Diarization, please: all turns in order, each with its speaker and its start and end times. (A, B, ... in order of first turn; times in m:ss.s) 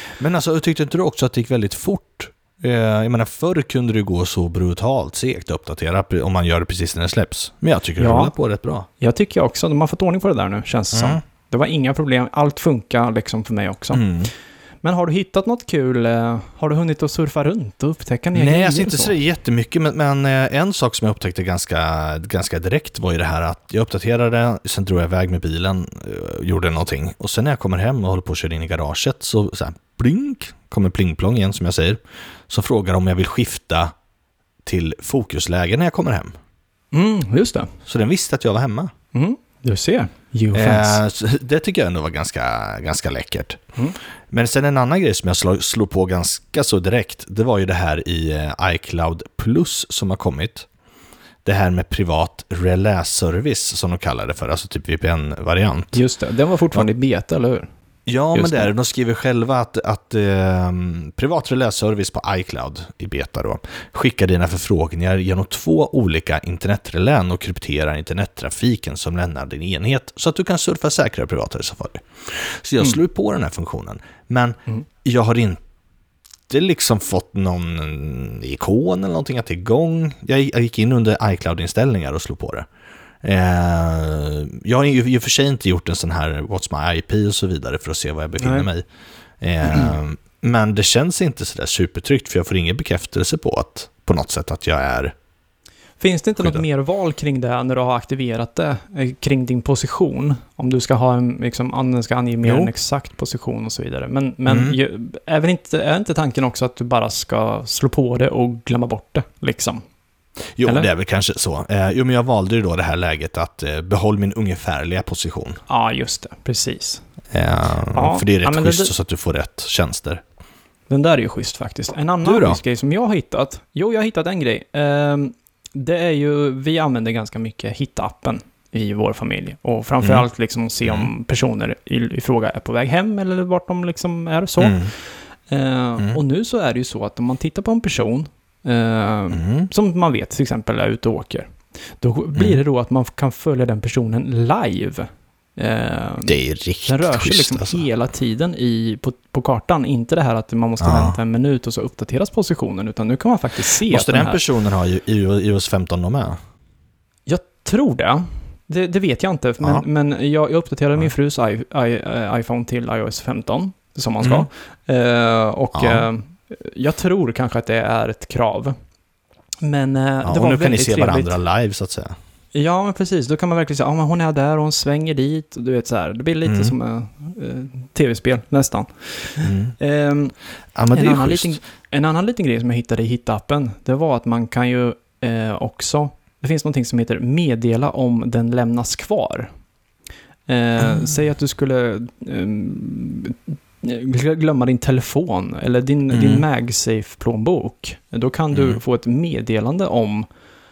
0:00.2-0:08.9 A
0:08.0-0:08.3 B
0:09.0-0:14.1 B
0:10.9-0:11.2 A
0:13.9-0:14.3 A
0:14.8-0:19.2 B
0:18.4-0:33.9 A
0:34.6-0:36.3 A
0:36.9-0:37.7 B
0:37.8-0:38.9 A
0:39.1-0:41.0 B
0:40.5-0:43.6 A
0:44.3-0:50.7 A
0:51.4-0:56.0 A
0:55.9-0:57.7 B
0:58.1-1:15.6 A
0:58.3-0:58.7 B
1:16.5-1:22.7 A
1:23.2-1:28.8 A
1:28.4-1:28.7 B
1:29.4-1:35.1 A
1:36.0-1:49.8 B
1:42.4-1:42.7 A
1:44.5-1:44.8 A
1:50.6-1:55.6 A
1:55.7-1:57.0 B
1:57.3-2:00.2 A
1:57.9-1:58.9 B
2:00.9-2:14.9 B
2:02.2-2:02.6 A
2:10.8-2:11.1 A
2:14.6-2:14.9 A
2:15.5-2:26.4 B
2:19.3-2:19.7 A
2:22.4-2:22.6 A
2:26.2-2:27.8 A
2:26.9-2:34.4 B
2:30.8-2:31.2 A
2:33.9-2:36.4 A
2:37.3-2:48.8 B
2:44.2-2:44.5 A
2:45.7-2:46.1 A
2:49.6-2:51.4 B
2:50.2-2:52.1 A
2:52.5-3:00.4 B
2:56.4-2:56.8 A
2:59.4-2:59.8 A
3:00.8-3:01.6 A
3:00.9-3:09.5 B
3:10.5-3:20.3 B
3:16.1-3:16.5 A
3:18.5-3:18.8 A